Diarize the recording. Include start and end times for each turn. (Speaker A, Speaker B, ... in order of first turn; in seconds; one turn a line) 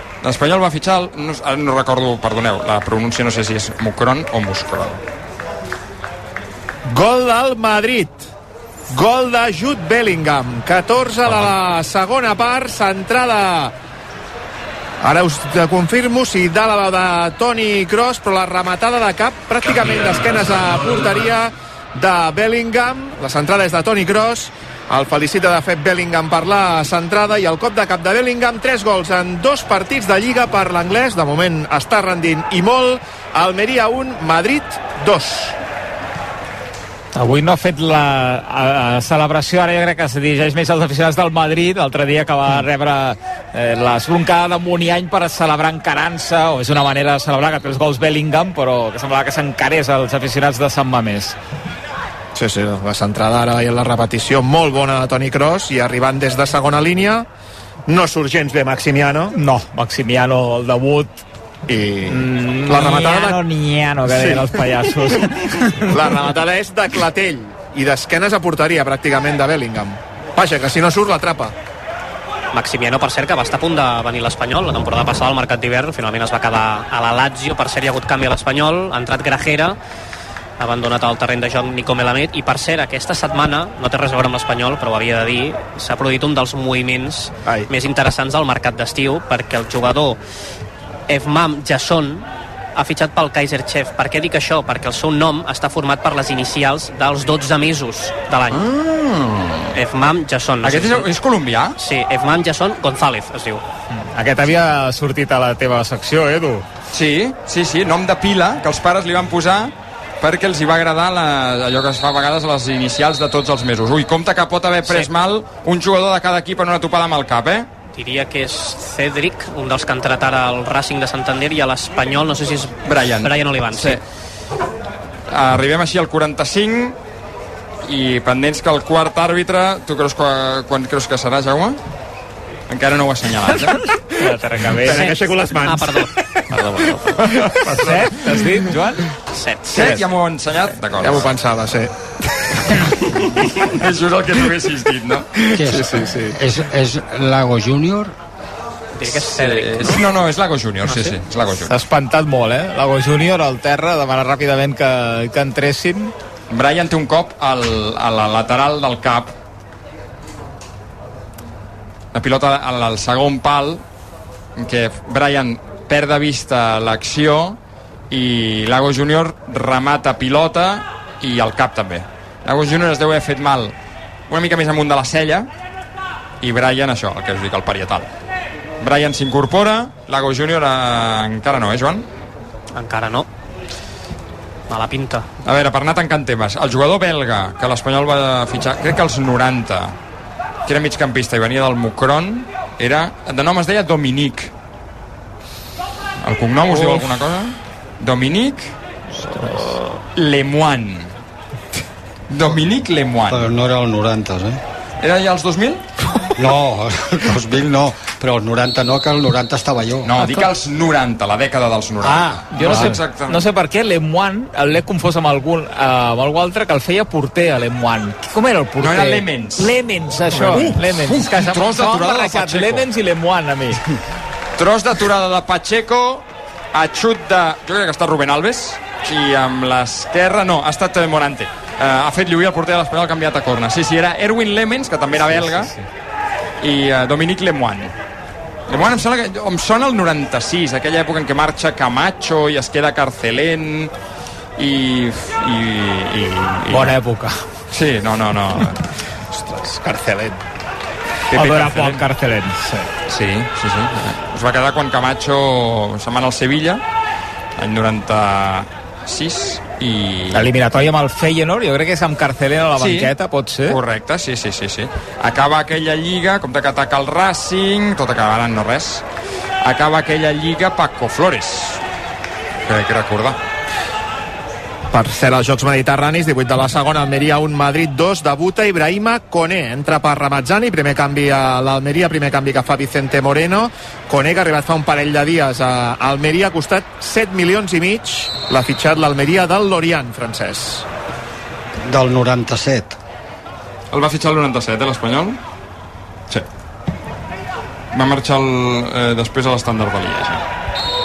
Speaker A: 0.2-5.0
Speaker B: 6.9-8.3
Speaker B: 8.9-13.7
Speaker B: 15.0-35.5
Speaker C: 37.1-51.4
Speaker B: 52.4-57.3
Speaker B: 57.9-59.3
Speaker C: 59.3-61.2
Speaker B: 61.7-63.4
Speaker C: 62.1-66.2
Speaker B: 64.1-64.7
Speaker B: 65.9-71.5
Speaker D: 72.5-79.8
Speaker D: 80.6-90.2
Speaker D: 91.1-98.6
Speaker A: 98.5-99.7
Speaker D: 99.7-101.1
Speaker A: 100.6-101.8
Speaker D: 101.8-103.6
Speaker C: 103.9-106.7
Speaker A: 106.9-117.7
Speaker D: 118.0-124.0
Speaker A: 122.9-124.0
Speaker A: 125.3-127.0
Speaker A: 127.8-131.8
Speaker A: 132.7-133.8
Speaker B: 133.9-134.3
Speaker C: 134.2-135.1
Speaker B: 134.8-138.7
Speaker D: 134.9-136.1
Speaker C: 137.5-139.1
Speaker D: 139.3-140.0
Speaker A: 139.7-141.3
Speaker B: 141.0-142.8
Speaker A: 143.0-145.3
Speaker B: 145.4-146.4
Speaker E: 145.6-148.1
Speaker D: 149.0-150.0
Speaker A: 149.1-151.8
Speaker D: 150.9-151.2
Speaker C: 151.7-156.1
Speaker A: 156.5-159.3
Speaker A: 162.1-163.8
Speaker A: 164.6-167.6
Speaker A: 168.1-173.8
Speaker A: 174.3-175.5
Speaker A: 176.4-178.1
Speaker A: 178.8-182.1
Speaker D: 182.8-183.3
Speaker D: 184.7-185.3
Speaker A: 185.4-190.0
Speaker A: 190.7-194.5
Speaker A: 196.2-198.8
Speaker A: 199.4-201.2
Speaker A: 202.3-203.5
Speaker E: 203.3-204.6
Speaker A: 205.0-205.8
Speaker E: 206.4-210.3
Speaker A: 210.1-213.4
Speaker E: 212.0-213.0
Speaker C: 212.5-223.8
Speaker A: 218.8-219.8
Speaker A: 220.4-222.9
Speaker B: 220.4-220.7
Speaker A: 224.6-235.7
Speaker C: 235.3-235.7
Speaker A: 236.6-237.9
Speaker A: 238.7-243.9
Speaker A: 244.6-246.9
Speaker C: 246.7-247.4
Speaker A: 247.7-248.8
Speaker B: 249.3-250.4
Speaker A: 251.3-252.0
Speaker C: 251.3-252.6
Speaker B: 252.6-252.9
Speaker A: 253.1-256.8
Speaker A: 257.6-260.5
Speaker C: 260.3-263.8
Speaker A: 262.8-263.1
Speaker A: 263.7-269.0
Speaker A: 269.6-271.8
Speaker A: 272.7-273.4
Speaker B: 274.9-290.9
Speaker E: 291.9-293.0
Speaker A: 293.9-295.4
Speaker A: 297.9-300.4